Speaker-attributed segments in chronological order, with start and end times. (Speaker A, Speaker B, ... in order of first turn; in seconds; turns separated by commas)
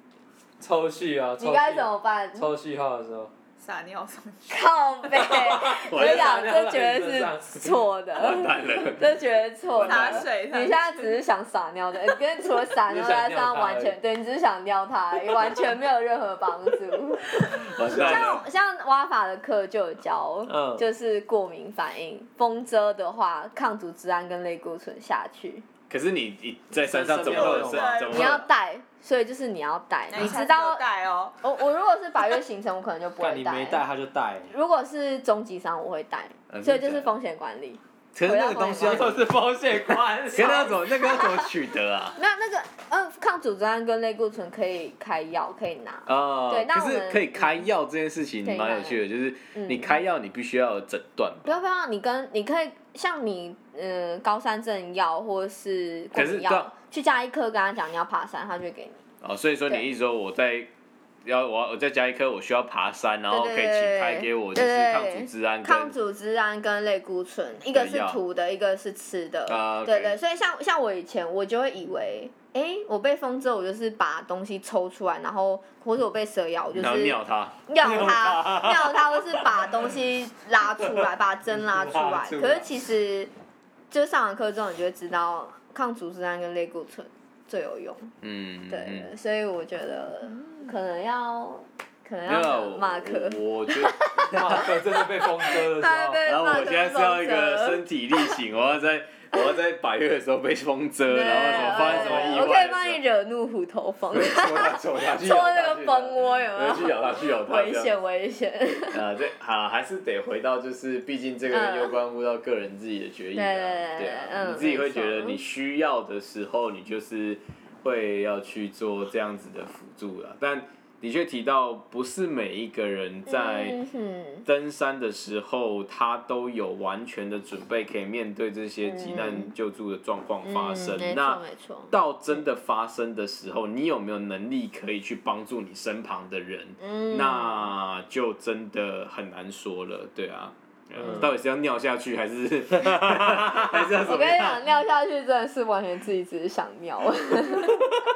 Speaker A: 0.6-3.3, Speaker B: 1.4-2.5, Speaker C: 3.6-4.7, Speaker B: 4.5-25.7, Speaker A: 5.2-7.8, Speaker D: 5.7-6.3, Speaker D: 8.2-9.1, Speaker D: 9.7-10.3, Speaker C: 9.8-11.2, Speaker A: 12.9-13.9, Speaker D: 17.6-18.4, Speaker A: 20.5-20.8, Speaker D: 25.9-28.4, Speaker A: 26.8-28.0, Speaker C: 27.2-28.4, Speaker B: 28.1-30.8, Speaker C: 30.1-31.4, Speaker B: 31.4-33.8, Speaker A: 33.2-34.5, Speaker B: 34.5-39.2, Speaker D: 36.5-37.1, Speaker D: 38.1-39.3, Speaker A: 38.8-40.6, Speaker D: 40.3-42.2, Speaker B: 40.3-41.5, Speaker B: 42.2-47.7, Speaker D: 46.1-51.6, Speaker B: 48.4-49.0, Speaker B: 49.5-50.0, Speaker B: 51.5-59.0, Speaker D: 56.1-56.7, Speaker D: 59.2-60.7, Speaker D: 61.2-65.9, Speaker B: 63.3-83.3, Speaker D: 67.7-68.2, Speaker D: 69.5-70.2, Speaker D: 76.7-77.5, Speaker A: 77.8-78.8, Speaker A: 81.6-82.7, Speaker B: 83.9-88.1, Speaker D: 88.2-89.1, Speaker B: 88.7-98.4, Speaker D: 92.2-94.7, Speaker A: 94.2-96.2, Speaker D: 96.2-103.0, Speaker B: 101.1-109.0, Speaker A: 101.5-102.5, Speaker D: 104.1-107.9, Speaker D: 108.9-123.8, Speaker B: 111.5-112.0, Speaker B: 113.3-115.4, Speaker B: 123.3-124.4, Speaker D: 124.5-144.7, Speaker B: 128.8-129.5, Speaker B: 130.4-131.9, Speaker B: 136.8-137.7, Speaker A: 141.0-141.2, Speaker B: 143.9-147.8